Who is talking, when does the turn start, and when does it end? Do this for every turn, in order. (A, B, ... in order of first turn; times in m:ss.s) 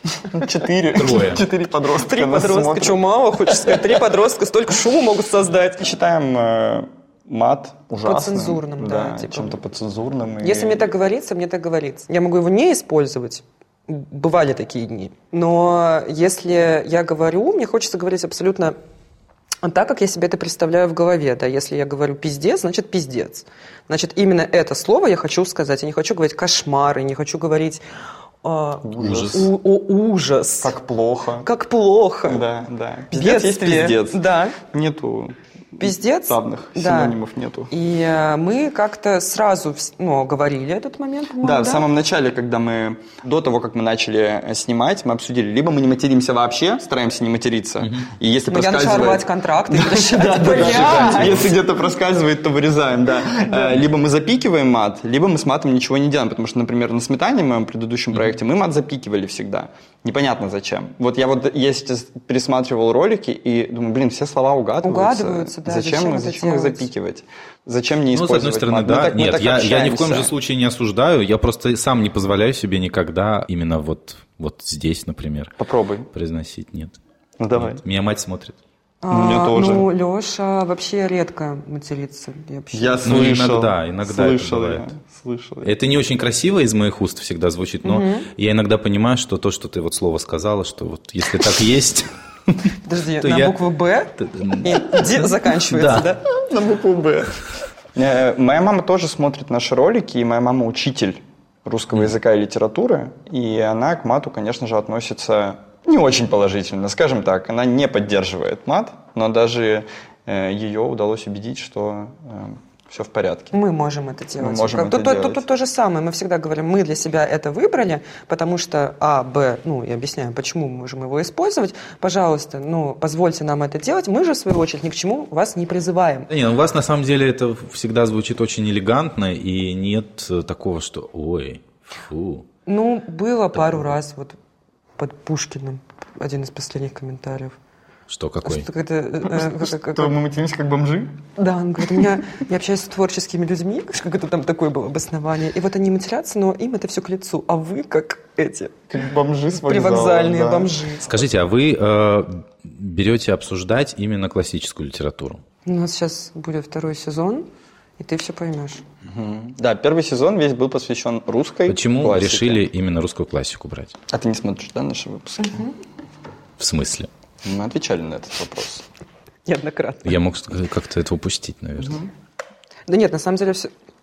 0:00.3-0:03.8 A
0:01.0-0:01.4 B
0:01.9-0:05.8 C
0:05.8-0:10.9 A
0:08.0-0:09.6 C
0:10.4-0:18.8 C
0:19.6-0:27.8 C
0:28.4-0:30.7 C
0:28.8-0:29.5 A
0:29.0-0:29.4 B
0:30.6-0:31.5 A
0:31.4-0:32.4 C
0:32.3-0:37.7 A
0:33.1-0:34.6 C
0:35.8-0:37.2 C
0:37.7-0:41.9 C
0:41.4-1:10.3 A
0:47.8-0:48.1 B
0:48.5-0:51.5 C
0:51.0-0:51.5 B
1:04.8-1:06.9 C
1:08.1-1:15.6 B
1:15.6-1:16.1 A
1:16.1-1:17.0 B
1:17.4-1:17.8 A
1:17.6-1:18.6 B
1:19.0-1:23.1 C
1:19.1-1:19.9 A
1:22.7-1:25.7 A
1:23.0-1:24.9 B
1:25.6-1:33.6 B
1:27.8-1:28.3 C
1:32.8-1:36.2 C
1:34.2-1:36.1 B
1:36.3-1:37.4 A
1:38.0-1:53.6 A
1:53.5-2:06.3 C
1:54.4-1:55.4 A
2:06.3-2:12.4 B
2:12.7-2:14.4 C
2:15.0-2:17.6 C
2:18.1-2:18.7 B
2:18.4-2:20.1 C
2:19.3-2:21.2 A
2:21.4-2:28.8 C
2:28.9-2:30.7 A
2:29.6-2:31.1 C
2:31.0-2:35.4 B
2:35.7-2:37.5 C
2:38.0-2:38.8 C
2:39.1-2:42.6 A
2:41.7-2:44.0 B
2:44.1-2:45.7 A
2:45.4-2:45.7 C
2:46.6-2:47.1 B
2:47.4-2:48.8 A
2:49.5-2:50.1 C
2:50.0-2:52.0 B
2:51.8-2:52.1 A
2:52.9-2:53.7 C